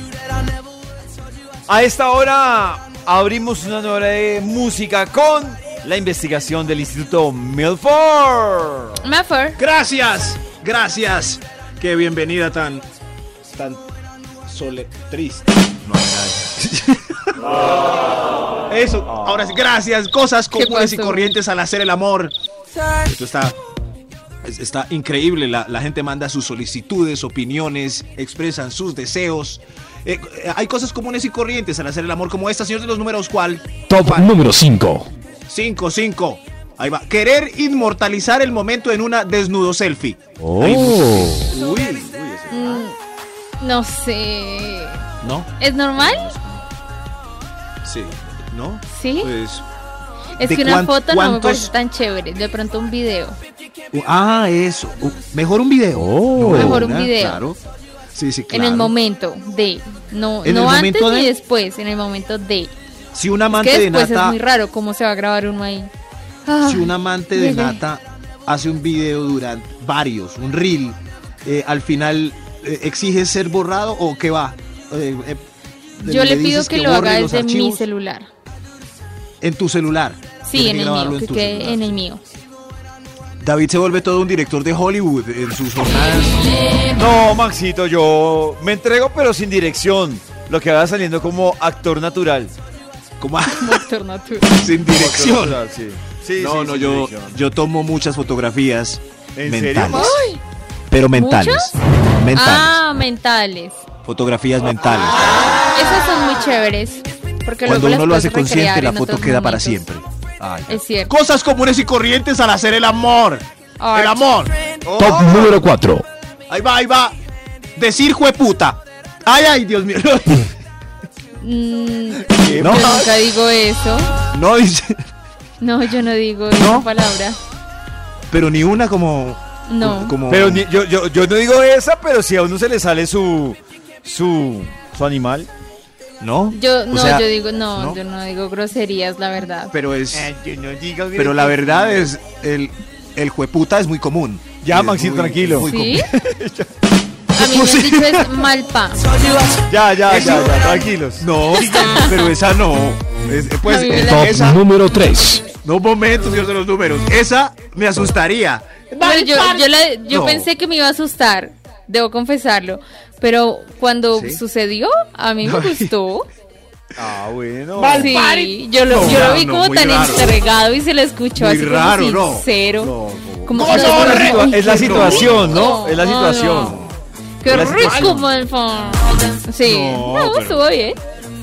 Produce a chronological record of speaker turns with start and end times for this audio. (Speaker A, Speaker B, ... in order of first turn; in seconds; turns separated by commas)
Speaker A: 1.7-9.0, Speaker B: 9.0-9.6, Speaker C: 9.6-12.8, Speaker C: 13.5-13.8, Speaker C: 14.5-17.3, Speaker C: 18.7-22.3, Speaker B: 20.5-21.3, Speaker C: 23.0-23.6, Speaker C: 24.4-34.4, Speaker D: 33.9-35.1, Speaker C: 35.5-42.8, Speaker A: 40.4-41.5, Speaker B: 42.5-43.0, Speaker B: 43.6-45.0, Speaker C: 45.2-46.6, Speaker B: 45.6-46.3, Speaker C: 47.8-49.6, Speaker B: 48.9-49.3, Speaker B: 50.4-53.4, Speaker C: 50.4-51.7, Speaker C: 53.9-57.6, Speaker A: 55.9-56.9, Speaker B: 56.5-57.4, Speaker C: 58.1-58.9, Speaker B: 58.5-62.7, Speaker C: 60.4-61.3, Speaker C: 63.1-64.4, Speaker B: 63.5-65.9, Speaker B: 66.5-67.8, Speaker C: 66.6-75.4, Speaker C: 76.0-77.8, Speaker B: 76.0-78.3, Speaker C: 79.4-82.0, Speaker B: 80.4-82.2, Speaker C: 83.4-86.4, Speaker A: 86.9-92.5, Speaker C: 93.2-93.8, Speaker B: 93.5-94.6, Speaker C: 94.5-95.6, Speaker A: 94.9-97.4, Speaker C: 96.4-100.2, Speaker A: 99.3-100.2, Speaker B: 99.9-100.4, Speaker C: 100.9-102.8, Speaker B: 101.1-101.7, Speaker B: 102.3-103.8, Speaker C: 104.0-105.7, Speaker B: 105.7-109.8, Speaker C: 107.6-115.5, Speaker B: 110.7-111.1, Speaker B: 113.8-114.3, Speaker D: 115.0-116.0, Speaker A: 115.0-115.3, Speaker C: 116.5-117.2, Speaker C: 117.8-120.5, Speaker B: 121.4-124.1, Speaker A: 122.3-123.1, Speaker C: 122.6-123.0, Speaker C: 124.3-124.9, Speaker B: 125.6-127.4, Speaker C: 126.5-126.9, Speaker C: 128.3-130.7, Speaker B: 129.7-130.2, Speaker A: 130.3-135.5, Speaker C: 136.2-138.0, Speaker B: 136.5-139.7, Speaker C: 139.7-140.3, Speaker A: 140.1-142.1, Speaker C: 141.1-146.1, Speaker A: 144.6-146.7, Speaker B: 145.6-146.1, Speaker C: 147.3-148.4, Speaker B: 147.3-149.0, Speaker A: 149.6-151.2, Speaker C: 150.1-150.6, Speaker C: 151.2-154.6, Speaker B: 151.5-152.1, Speaker B: 153.6-154.3, Speaker D: 153.9-155.4, Speaker C: 155.6-160.5, Speaker B: 159.0-166.3, Speaker C: 164.1-164.4, Speaker C: 165.4-165.9, Speaker A: 166.9-168.2, Speaker C: 167.8-170.3, Speaker B: 168.0-172.9, Speaker C: 171.3-175.7, Speaker B: 173.4-176.8, Speaker A: 173.5-176.8, Speaker C: 176.5-178.3, Speaker B: 177.4-181.0, Speaker C: 179.6-180.6